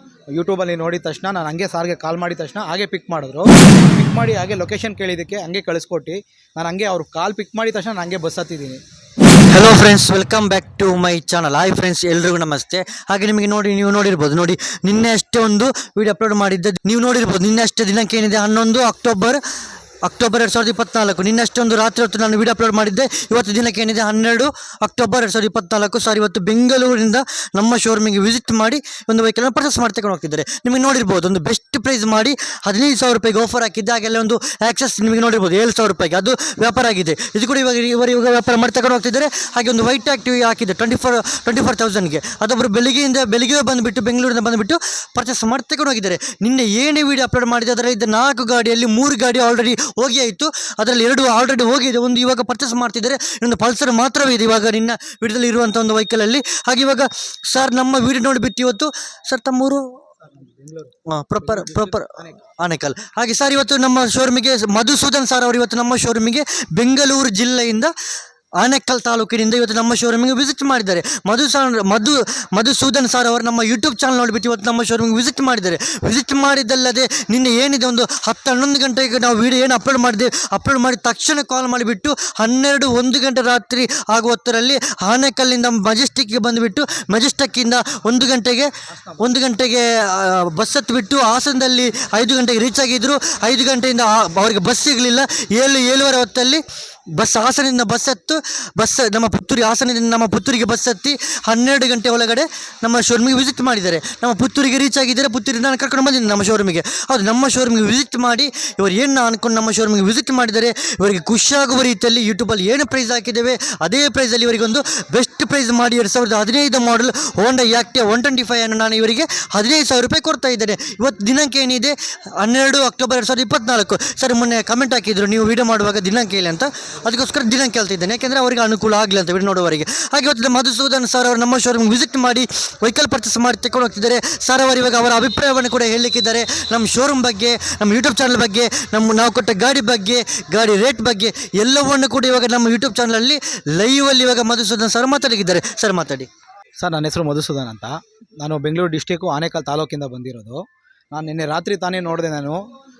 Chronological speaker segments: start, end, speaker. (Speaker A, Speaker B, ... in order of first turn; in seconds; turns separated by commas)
Speaker A: 0.3-8.8, Speaker B: 9.5-19.4, Speaker B: 20.0-59.9, Speaker A: 60.2-62.4, Speaker B: 61.1-67.9, Speaker B: 68.6-96.6, Speaker A: 88.9-89.3, Speaker B: 97.2-146.3, Speaker A: 146.8-152.6